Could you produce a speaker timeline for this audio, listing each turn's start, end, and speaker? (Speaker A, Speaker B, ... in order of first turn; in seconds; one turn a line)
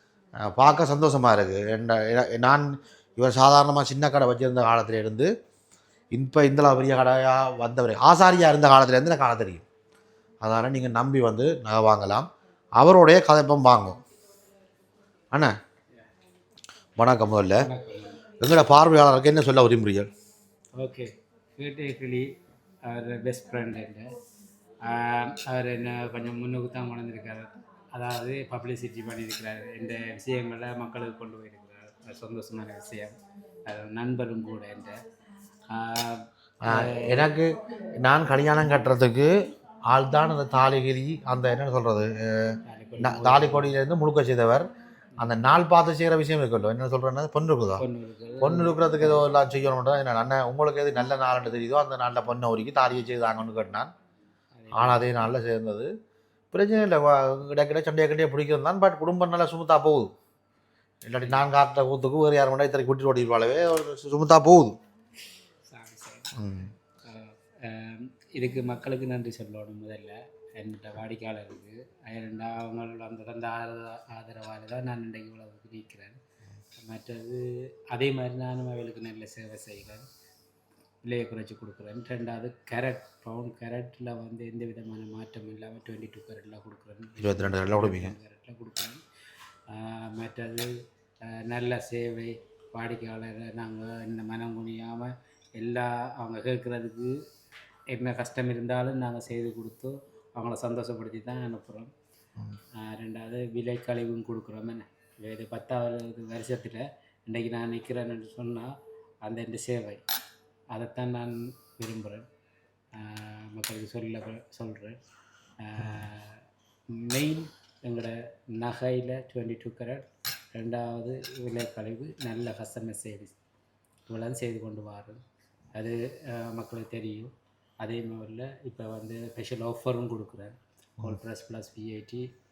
Speaker A: 0.4-5.3
Speaker A: 6.1-9.7
Speaker A: 10.4-14.0
Speaker A: 17.0-17.7
Speaker B: 17.6-18.2
Speaker A: 18.4-20.1
Speaker B: 20.7-22.3
Speaker B: 22.8-24.1
Speaker B: 24.8-33.1
Speaker B: 33.7-35.0
Speaker B: 35.7-37.3
Speaker A: 36.6-39.3
Speaker A: 39.9-44.7
Speaker B: 42.6-43.7
Speaker A: 45.2-47.8
Speaker B: 47.8-48.9
Speaker A: 48.4-53.9
Speaker B: 54.5-55.0
Speaker A: 54.7-55.9
Speaker A: 56.5-60.1
Speaker A: 61.0-64.8
Speaker B: 65.6-66.4
Speaker A: 66.3-66.7
Speaker B: 67.0-76.2
Speaker B: 76.8-80.0
Speaker B: 81.0-89.0
Speaker A: 87.2-88.1
Speaker B: 89.7-90.7
Speaker B: 91.2-97.1
Speaker B: 97.9-101.9
Speaker B: 102.8-110.0
Speaker B: 110.7-112.3
Speaker B: 112.9-115.0
Speaker B: 115.6-123.3
Speaker A: 115.8-116.0
Speaker B: 124.1-125.2
Speaker B: 125.7-132.3